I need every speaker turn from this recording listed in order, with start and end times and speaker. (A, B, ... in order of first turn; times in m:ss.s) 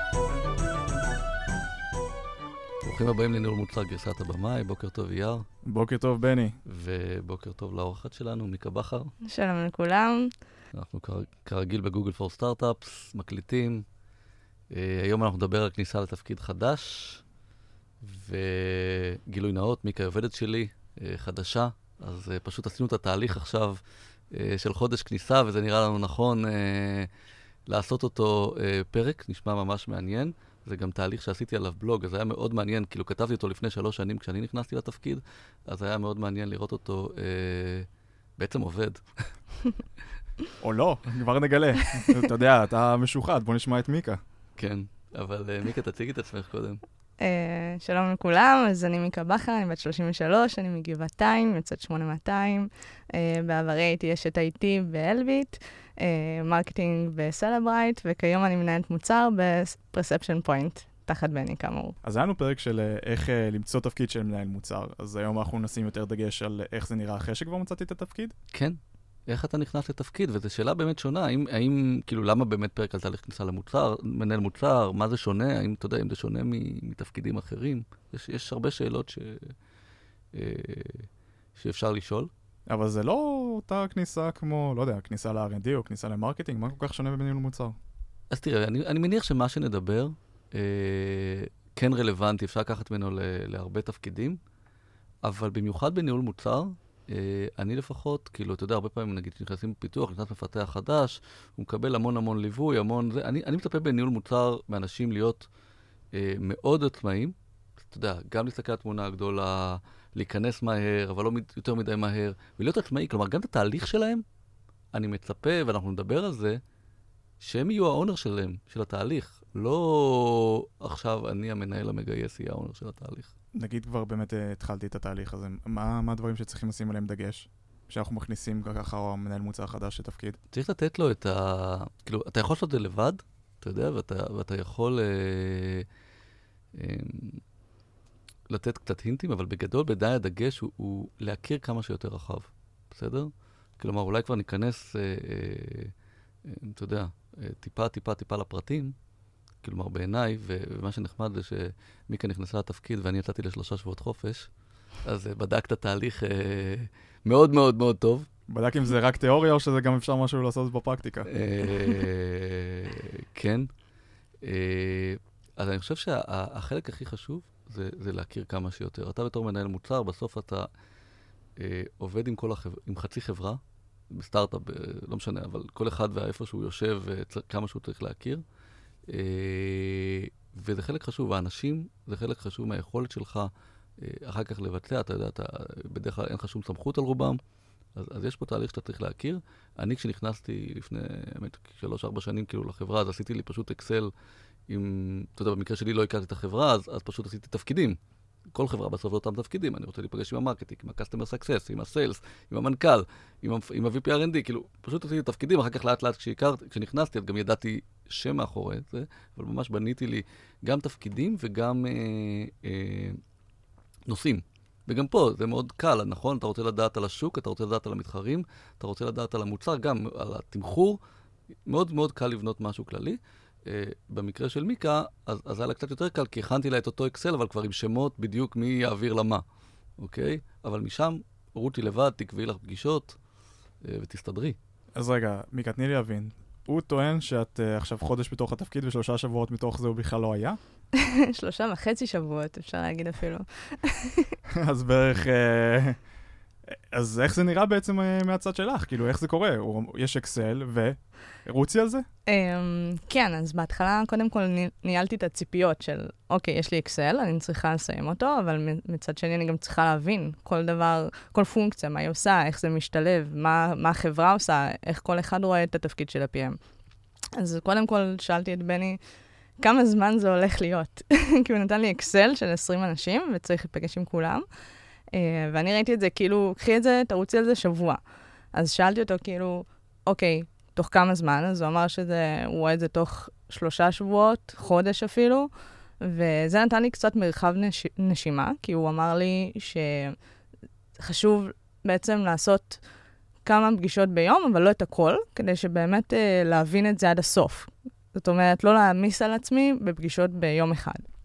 0:02.8-0:05.4 A
0:05.6-0:06.6 B
0:06.6-0:09.1 A
0:09.2-0:10.3 C
0:10.7-0:13.8 A
0:14.7-0:17.2 A
0:18.0-0:23.8 A
0:24.3-0:27.1 A
0:27.7-0:39.3 A
0:40.6-0:44.2 B
0:44.6-0:46.8 A
0:47.2-1:02.0 C
1:02.0-1:08.3 B
1:08.5-1:19.5 A
1:20.3-1:22.3 A
1:22.7-1:27.8 B
1:28.3-1:34.4 A
1:35.2-1:45.5 A
1:46.1-1:54.2 A
1:54.9-1:56.6 A
1:57.4-2:03.3 A
2:03.5-2:10.4 B
2:10.5-2:15.8 A
2:16.7-2:17.4 A
2:18.5-2:25.9 A
2:26.4-2:28.9 A
2:29.6-2:34.5 A
2:35.0-2:38.3 A
2:38.5-2:41.3 B
2:41.3-2:43.7 A
2:44.4-2:50.7 A
2:51.6-2:58.4 A
2:59.1-3:07.4 A
3:07.9-3:14.1 A
3:14.7-3:18.0 A
3:18.5-3:33.2 A
3:34.1-3:41.0 A
3:41.6-3:49.4 A
3:50.0-3:53.2 A
3:53.8-3:54.6 A
3:54.9-4:00.6 B
4:01.0-4:04.3 C
4:04.5-4:06.0 B
4:06.7-4:12.0 B
4:12.3-4:26.6 C
4:27.3-4:29.0 C
4:29.6-4:34.4 C
4:35.1-4:38.0 C
4:38.5-4:45.5 C
4:46.0-4:50.2 C
4:51.0-4:52.8 C
4:53.4-5:01.0 C